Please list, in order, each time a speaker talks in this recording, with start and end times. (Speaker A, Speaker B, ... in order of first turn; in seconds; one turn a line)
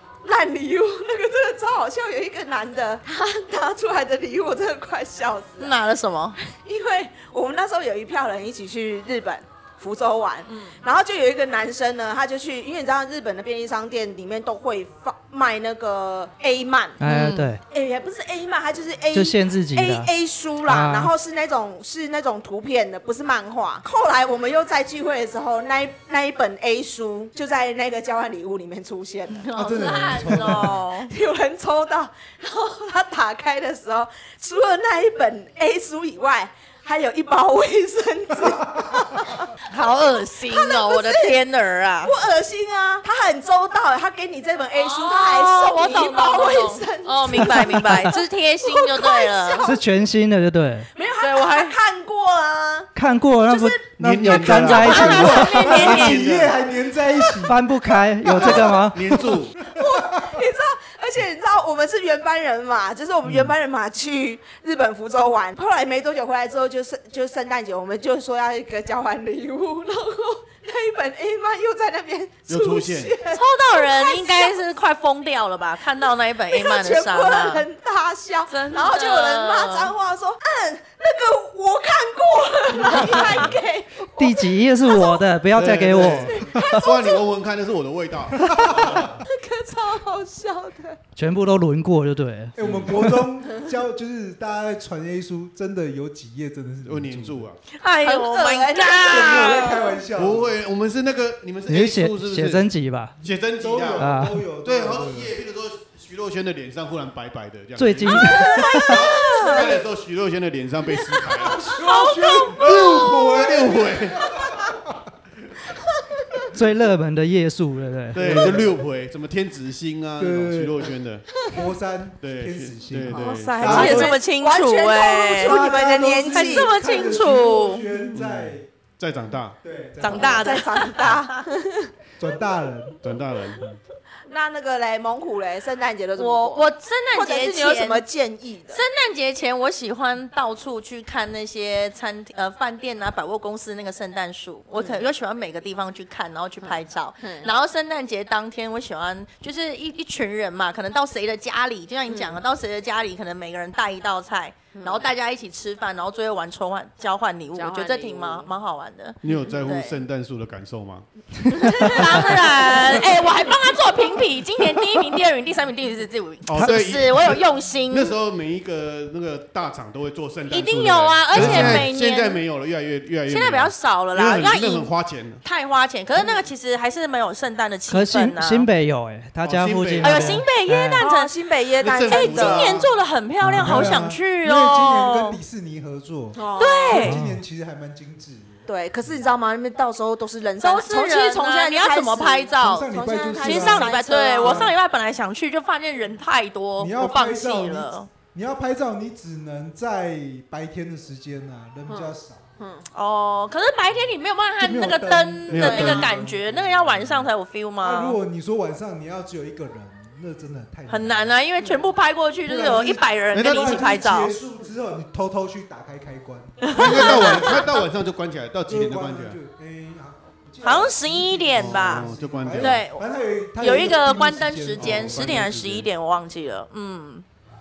Speaker A: 0.2-5.7
Speaker B: 5.6-6.4
Speaker A: 6.4-17.0
Speaker C: 17.0-17.6
Speaker B: 17.0-17.5
Speaker A: 17.6-39.5
Speaker C: 19.1-20.1
Speaker C: 20.6-21.1
Speaker B: 29.3-31.1
Speaker D: 29.5-30.8
Speaker B: 39.7-42.1
Speaker A: 40.5-41.4
Speaker A: 42.0-47.8
Speaker B: 44.8-49.7
Speaker C: 47.4-48.1
Speaker A: 48.7-49.8
Speaker C: 49.6-50.9
Speaker A: 50.9-52.9
Speaker B: 51.2-51.7
Speaker C: 52.9-56.1
Speaker A: 53.4-53.9
Speaker E: 54.0-55.0
Speaker D: 54.6-57.6
Speaker B: 54.7-56.5
Speaker A: 55.0-55.3
Speaker E: 56.2-56.5
Speaker C: 57.4-59.0
Speaker D: 58.2-59.5
Speaker E: 58.3-59.6
Speaker A: 58.4-58.8
Speaker A: 59.6-74.6
Speaker E: 72.5-73.2
Speaker B: 73.3-77.6
Speaker A: 76.5-85.2
Speaker B: 78.5-79.9
Speaker C: 84.2-86.3
Speaker E: 85.5-89.2
Speaker A: 86.3-87.3
Speaker D: 88.4-89.2
Speaker A: 88.4-91.0
Speaker C: 91.1-93.0
Speaker D: 92.5-97.5
Speaker E: 92.6-93.0
Speaker E: 96.8-97.6
Speaker B: 97.7-99.9
Speaker A: 98.0-99.9
Speaker D: 99.0-100.6
Speaker E: 100.1-111.6
Speaker C: 101.7-103.1
Speaker D: 103.2-105.4
Speaker C: 104.0-104.4
Speaker C: 107.8-109.0
Speaker A: 108.1-109.8
Speaker B: 108.5-109.6
Speaker A: 110.9-111.8
Speaker D: 111.5-115.1
Speaker B: 111.7-113.1
Speaker E: 112.6-114.3
Speaker C: 116.5-118.6
Speaker E: 118.1-121.2
Speaker D: 118.1-118.8
Speaker D: 120.2-124.1
Speaker E: 122.2-123.9
Speaker B: 123.1-125.6
Speaker A: 123.1-127.0
Speaker D: 125.3-128.7
Speaker B: 126.3-127.8
Speaker E: 128.1-129.6
Speaker D: 129.6-131.1
Speaker B: 130.0-131.2
Speaker A: 130.1-131.9
Speaker D: 132.2-133.0
Speaker E: 133.0-133.7
Speaker A: 134.3-138.8
Speaker B: 136.2-138.0
Speaker B: 138.7-160.0
Speaker A: 144.7-145.0
Speaker A: 146.6-147.5
Speaker A: 152.1-152.4
Speaker A: 154.7-155.1
Speaker A: 157.5-158.5
Speaker E: 159.2-161.0
Speaker B: 161.5-168.2
Speaker E: 161.6-162.3
Speaker A: 162.1-162.3
Speaker E: 166.5-175.4
Speaker B: 170.5-172.4
Speaker C: 171.3-171.8
Speaker B: 173.3-178.7
Speaker A: 176.1-176.5
Speaker C: 177.9-181.1
Speaker E: 179.4-180.5
Speaker B: 180.0-181.3
Speaker A: 181.0-182.8
Speaker E: 181.8-182.9
Speaker B: 182.0-185.4
Speaker C: 183.4-183.9
Speaker D: 183.5-189.2
Speaker A: 186.3-187.1
Speaker B: 186.6-187.2
Speaker C: 187.0-187.4
Speaker A: 188.7-194.7
Speaker B: 190.6-198.1
Speaker D: 192.6-194.7
Speaker D: 196.8-202.4
Speaker A: 201.9-202.9
Speaker B: 202.9-208.2
Speaker D: 204.6-207.3
Speaker E: 205.5-206.2
Speaker D: 207.8-211.3
Speaker B: 210.9-214.4
Speaker D: 212.4-217.4
Speaker E: 213.3-213.7
Speaker B: 216.6-217.8
Speaker E: 216.7-219.4
Speaker D: 218.6-225.8
Speaker B: 220.6-227.2
Speaker E: 221.6-222.9
Speaker E: 224.8-225.8